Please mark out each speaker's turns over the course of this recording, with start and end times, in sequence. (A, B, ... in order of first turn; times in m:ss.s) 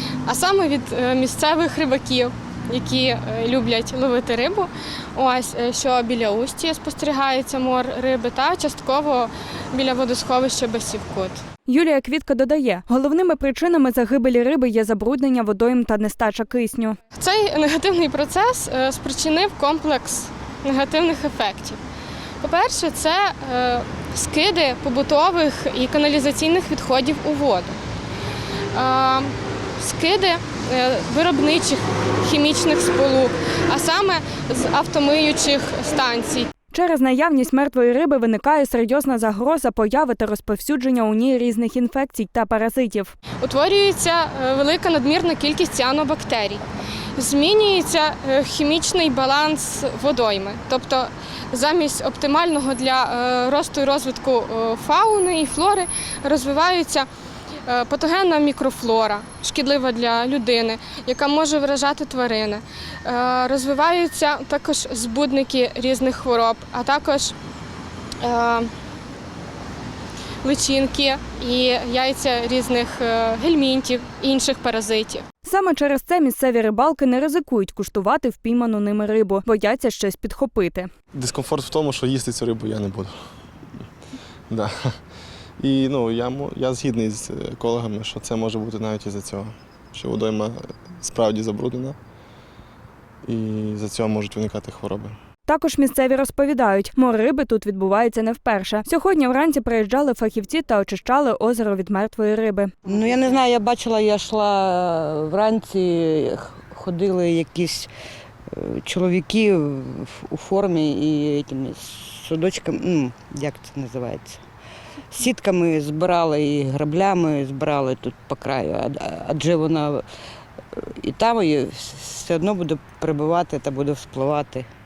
0:00.2-0:11.4 A
0:11.7-0:17.0 B
0:17.2-0:21.8 A
0:22.4-0:27.8 A
0:28.7-0:36.5 A
0:36.7-0:43.2 B
0:43.4-0:46.6 A
0:47.2-0:57.1 A
0:57.7-1:07.4 A
1:08.2-1:08.7 A
1:10.4-1:15.2 A
1:15.5-1:20.9 B
1:21.1-1:23.2 C
1:24.5-1:25.0 C
1:25.6-1:32.0 C
1:33.3-1:35.2 C
1:35.5-1:42.7 B
1:42.9-1:47.9 D
1:48.5-1:54.4 D
1:55.1-2:00.0 D
2:00.7-2:04.7 D